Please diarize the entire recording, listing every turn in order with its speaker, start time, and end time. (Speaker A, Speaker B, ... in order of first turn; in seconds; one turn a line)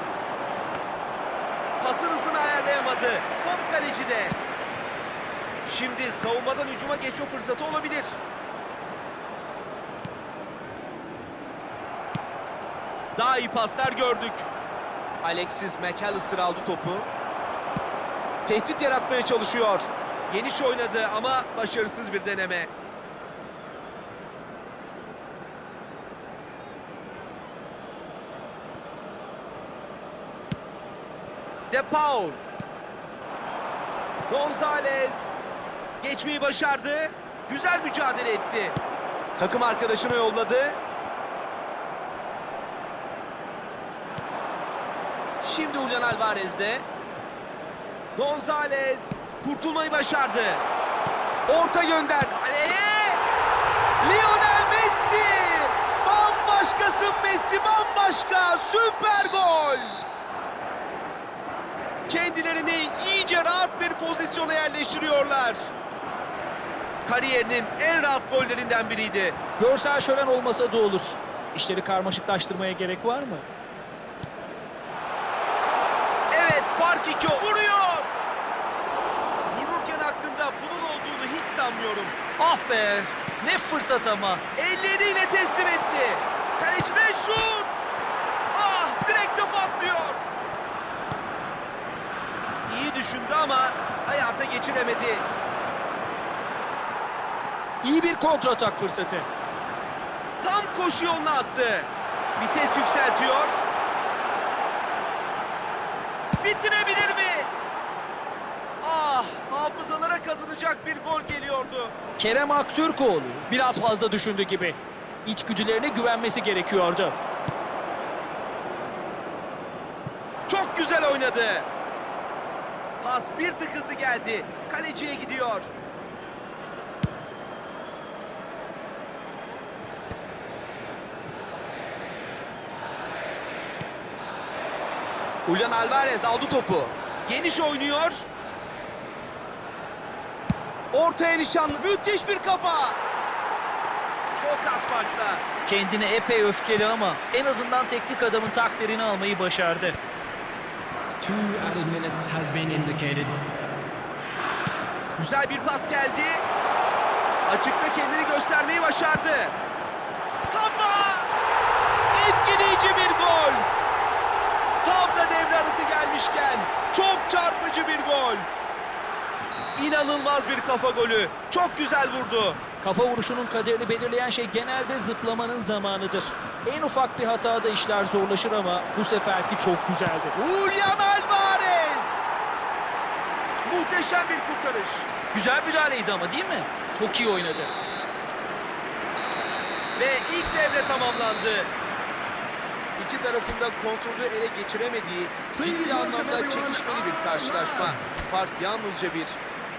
Speaker A: 1.8-4.4
Speaker A: 5.6-8.2
Speaker A: 13.2-14.5
Speaker A: 15.2-17.1
Speaker A: 18.4-22.7
Speaker A: 31.7-32.4
Speaker A: 34.3-35.3
Speaker A: 36.0-38.8
Speaker A: 39.4-40.8
Speaker A: 45.4-46.9
Speaker A: 48.1-50.6
Speaker A: 51.5-53.2
Speaker A: 54.0-60.0
Speaker A: 62.1-65.7
Speaker A: 67.0-69.4
Speaker B: 69.6-73.5
Speaker A: 76.3-78.1
Speaker A: 79.5-82.1
Speaker B: 82.4-84.4
Speaker A: 84.5-87.7
Speaker A: 88.5-90.2
Speaker A: 92.7-95.3
Speaker B: 97.8-99.3
Speaker A: 100.4-103.7
Speaker A: 106.4-107.5
Speaker A: 108.8-111.9
Speaker B: 112.2-117.1
Speaker A: 120.5-121.7
Speaker A: 123.0-125.7
Speaker A: 135.4-138.3
Speaker A: 140.9-143.0
Speaker A: 144.3-145.4
Speaker B: 145.6-150.0
Speaker C: 151.2-153.4
Speaker A: 155.2-156.4
Speaker A: 157.5-159.5
Speaker A: 160.5-161.3
Speaker A: 162.1-163.7
Speaker A: 164.8-168.5
Speaker A: 169.8-172.6
Speaker B: 172.8-180.3
Speaker A: 180.3-182.2
Speaker A: 183.6-185.1
Speaker B: 185.3-187.7
Speaker A: 190.0-191.7
Speaker A: 193.0-199.4
Speaker C: 195.6-198.2